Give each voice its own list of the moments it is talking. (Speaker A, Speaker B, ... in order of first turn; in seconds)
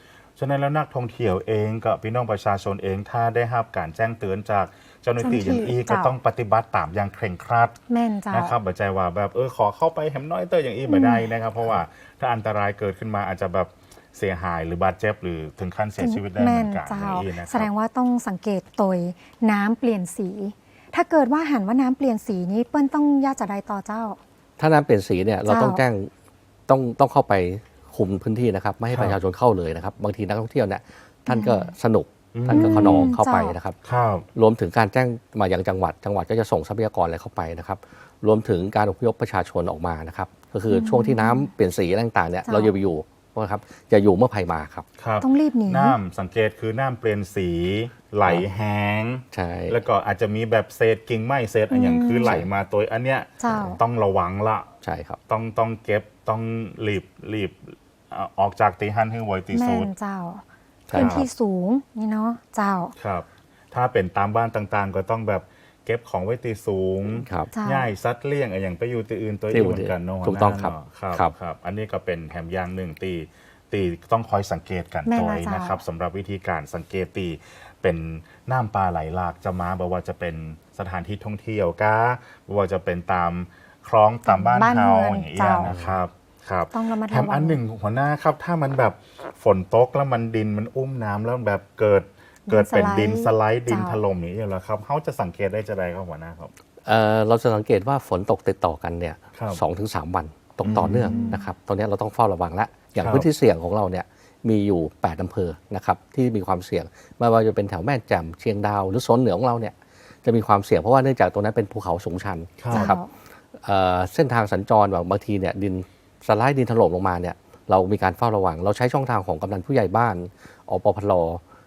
Speaker A: 0.4-7.8, 8.3-17.7, 28.9-29.1, 32.3-33.1, 33.8-34.3, 45.0-54.7, 55.3-59.9, 60.9-61.2, 63.0-96.5, 99.3-99.6, 100.6-101.3, 103.0-103.3, 112.6-112.9
Speaker B: 5.2-6.1, 7.9-8.6, 10.9-11.3, 16.0-24.2, 25.4-25.8, 31.2-31.7, 32.5-33.5, 40.7-41.5, 42.4-42.8, 45.2-46.0, 51.7-52.4, 53.4-53.8, 59.5-62.9, 67.5-67.9, 75.0-75.8, 84.2-85.7, 86.7-87.6, 92.5-94.0, 101.1-101.5, 112.7-113.1
Speaker C: 24.6-26.1, 26.7-33.8, 34.3-44.8, 49.3-49.8, 52.1-52.5, 54.8-55.2, 60.9-61.2, 67.2-67.5, 69.5-71.3, 85.6-86.0, 96.8-113.0, 113.6-121.4